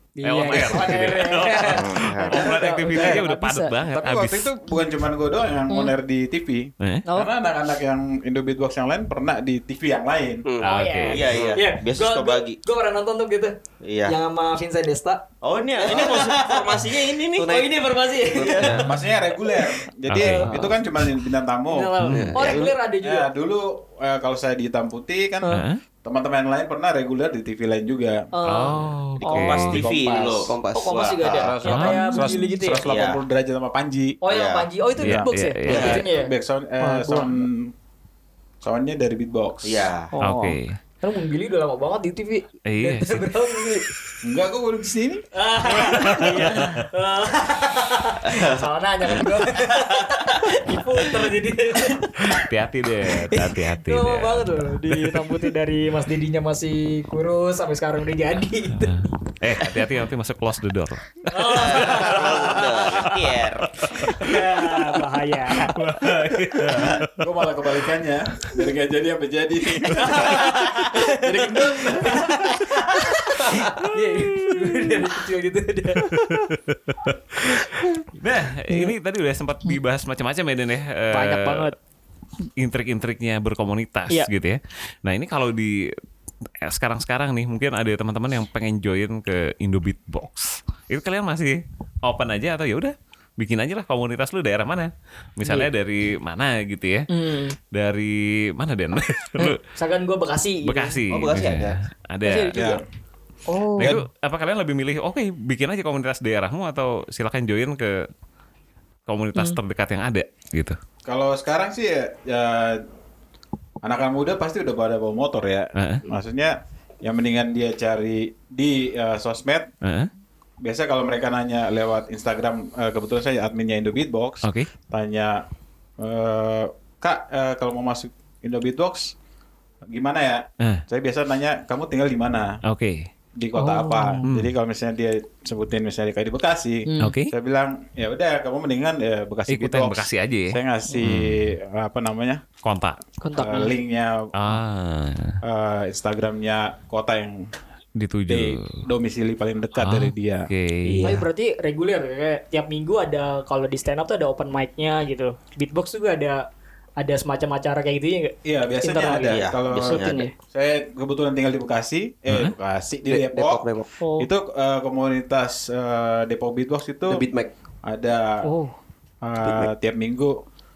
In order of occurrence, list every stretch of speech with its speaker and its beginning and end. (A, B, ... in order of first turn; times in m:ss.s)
0:00.2-0:03.8 A
0:00.2-0:04.5 B
0:01.7-0:02.4 C
0:02.4-0:03.3 D
0:03.8-0:10.4 D
0:06.8-0:07.1 B
0:07.1-0:07.3 A
0:10.4-0:10.7 E
0:10.6-0:11.4 B
0:10.6-0:13.5 A
0:11.1-0:12.6 C
0:13.8-0:14.2 C
0:14.0-0:15.2 A
0:15.4-0:17.6 C
0:15.8-0:21.1 A
0:15.8-0:16.6 E
0:17.4-0:17.7 E
0:18.3-0:18.9 E
0:18.4-0:18.9 C
0:18.8-0:21.9 D
0:20.1-0:20.5 B
0:21.7-0:23.3 A
0:22.0-0:22.4 B
0:22.1-0:22.7 E
0:22.4-0:25.5 D
0:25.5-0:25.8 B
0:26.0-0:28.3 D
0:28.4-0:29.8 A
0:28.5-0:29.8 B
0:29.2-0:31.5 C
0:29.4-0:30.6 D
0:30.4-0:31.4 E
0:30.8-0:32.8 A
0:31.4-0:34.2 D
0:31.6-0:32.3 B
0:32.8-0:33.2 C
0:34.2-0:37.4 A
0:34.3-0:34.7 C
0:35.0-0:37.7 D
0:35.0-0:36.0 B
0:38.6-0:39.9 D
0:39.6-0:40.1 C
0:40.1-0:43.9 A
0:40.2-0:40.8 B
0:42.7-0:43.7 B
0:44.2-0:45.2 D
0:45.3-0:52.5 A
0:45.7-0:46.8 B
0:48.3-0:48.6 C
0:52.3-0:55.3 B
0:53.1-0:59.0 A
0:58.8-1:04.8 B
1:01.3-1:02.8 A
1:01.6-1:03.7 C
1:03.9-1:05.8 A
1:05.7-1:07.3 B
1:06.7-1:12.7 D
1:09.9-1:10.6 B
1:09.9-1:16.1 A
1:13.6-1:15.0 B
1:16.0-1:21.7 B
1:17.6-1:17.9 A
1:18.7-1:18.9 A
1:21.1-1:21.7 A
1:22.6-1:25.9 B
1:26.6-1:37.1 B
1:35.4-1:35.7 A
1:37.1-1:37.6 A
1:37.7-1:39.6 B
1:39.4-1:41.0 A
1:40.6-1:42.7 B
1:41.1-1:41.8 E
1:42.2-1:42.8 A
1:42.5-1:42.8 D
1:43.5-1:44.0 A
1:43.8-1:44.0 D
1:43.8-1:48.1 B
1:49.1-1:50.8 B
1:51.1-1:52.8 D
1:53.8-1:59.7 D
1:55.8-1:56.0 B
1:59.8-2:00.1 B
2:00.6-2:05.4 D
2:04.4-2:04.7 B
2:06.0-2:09.2 D
2:09.8-2:12.6 D
2:12.7-2:13.1 B
2:13.4-2:22.4 D
2:13.6-2:14.2 A
2:14.3-2:14.5 B
2:16.9-2:17.1 A
2:17.0-2:17.3 B
2:19.5-2:21.6 B
2:22.6-2:23.0 B
2:23.2-2:23.8 A
2:23.4-2:24.6 D
2:24.4-2:25.4 B
2:25.4-2:27.5 D
2:28.0-2:28.8 B
2:28.3-2:30.5 D
2:29.8-2:31.2 B
2:31.0-2:36.4 A
2:37.0-2:40.3 A
2:38.4-2:43.6 D
2:39.3-2:40.1 C
2:42.3-2:42.5 B
2:43.1-2:43.9 E
2:44.0-2:44.3 A
2:44.2-2:47.2 D
2:47.1-2:47.5 E
2:47.8-2:48.5 D
2:48.4-2:48.8 A
2:49.2-2:50.4 D
2:49.4-2:49.7 E